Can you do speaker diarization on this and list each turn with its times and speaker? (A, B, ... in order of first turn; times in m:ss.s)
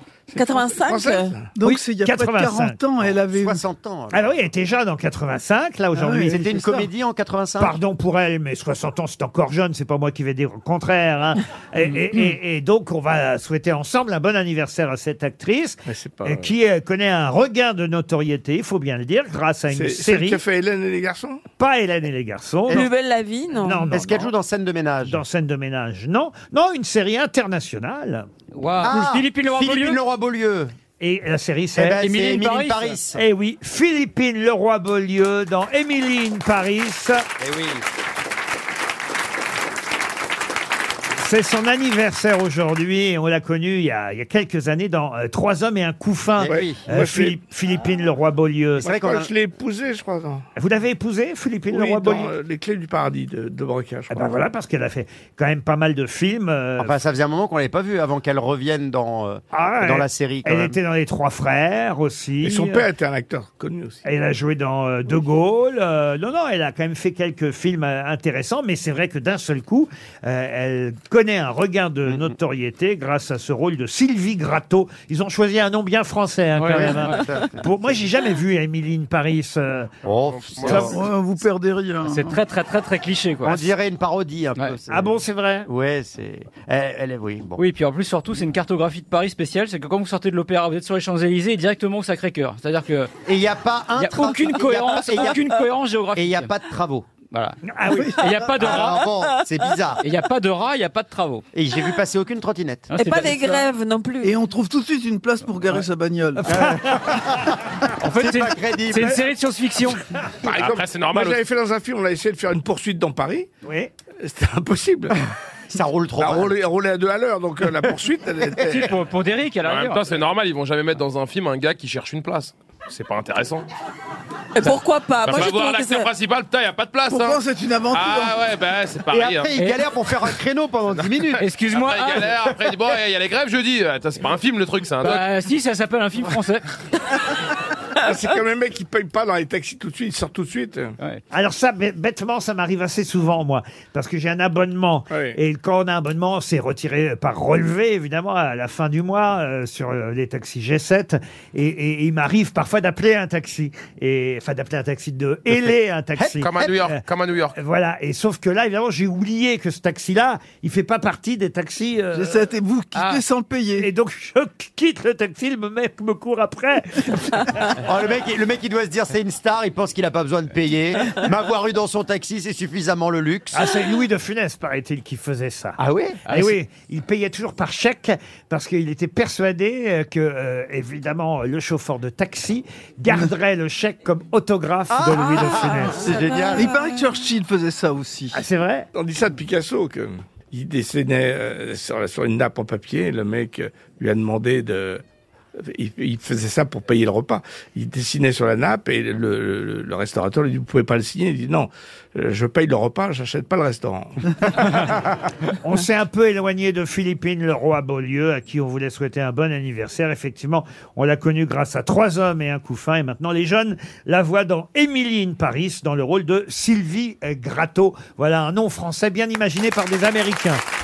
0:00.3-0:01.5 A
0:00.4-0:01.4 B
0:01.6-0:03.6 C
0:01.6-0:02.8 D
0:03.0-0:04.5 E
0:04.1-0:06.8 D
0:06.0-0:06.7 C
0:06.3-0:07.8 E
0:07.6-0:20.4 D
0:12.0-0:12.4 F
0:15.9-0:16.5 A
0:19.7-0:21.4 A
0:21.6-0:22.9 D
0:22.7-0:23.9 B
0:23.6-0:24.3 D
0:23.9-0:25.2 E
0:25.0-0:28.3 D
0:28.5-0:30.0 F
0:28.8-0:30.7 E
0:31.0-0:32.0 D
0:31.8-0:33.2 E
0:32.0-0:33.0 F
0:33.2-0:37.3 D
0:37.4-0:37.9 E
0:41.2-0:48.9 D
0:46.4-0:46.8 E
0:46.4-0:47.4 A
0:48.8-0:49.3 E
0:48.8-0:50.5 A
0:50.6-0:52.3 D
0:51.7-0:54.3 A
0:54.1-0:57.0 D
0:56.8-1:00.8 E
0:59.5-1:02.8 D
1:02.4-1:04.0 A
1:04.0-1:19.9 D
1:16.6-1:17.2 F
1:16.7-1:17.6 E
1:20.0-1:21.0 E
1:20.2-1:20.9 G
1:20.6-1:20.9 F
1:20.6-1:20.9 D
1:20.8-1:22.4 C
1:22.0-1:23.7 F
1:23.4-1:27.6 E
1:24.9-1:25.7 D
1:27.6-1:33.1 F
1:33.3-1:35.5 E
1:34.0-1:36.5 F
1:36.1-1:37.1 E
1:37.3-1:37.6 F
1:37.7-1:38.2 D
1:37.9-1:38.5 C
1:38.1-1:39.1 F
1:38.6-1:40.0 E
1:40.0-1:41.4 F
1:41.5-1:42.9 E
1:42.9-1:43.7 F
1:43.0-1:44.4 B
1:44.2-1:46.5 C
1:46.4-1:47.2 D
1:46.5-1:49.2 E
1:48.0-1:50.0 F
1:50.4-1:51.4 G
1:50.4-1:53.5 A
1:53.6-1:53.9 D
1:54.2-1:55.2 A
1:55.7-1:56.6 E
1:56.2-1:58.9 A
1:58.6-2:00.0 F
1:59.6-2:03.7 G
2:04.6-2:06.1 B
2:05.2-2:09.5 G
2:07.1-2:08.4 C
2:09.1-2:11.4 E
2:09.6-2:09.9 F
2:11.4-2:12.3 F
2:11.7-2:15.3 G
2:15.0-2:16.7 F
2:18.0-2:21.0 A
2:21.3-2:37.0 D
2:25.1-2:25.4 A
2:36.2-2:36.7 E
2:36.4-2:37.6 G
2:37.6-2:42.4 D
2:42.1-2:43.9 C
2:42.9-2:43.2 F
2:43.8-2:47.8 D
2:47.8-2:53.7 E
2:53.5-3:06.1 D
2:55.8-2:56.2 E
2:56.3-2:56.6 F
3:04.9-3:06.7 E
3:06.5-3:08.4 C
3:08.3-3:08.9 D
3:08.9-3:15.0 A
3:15.6-3:25.0 A
3:25.6-3:40.6 D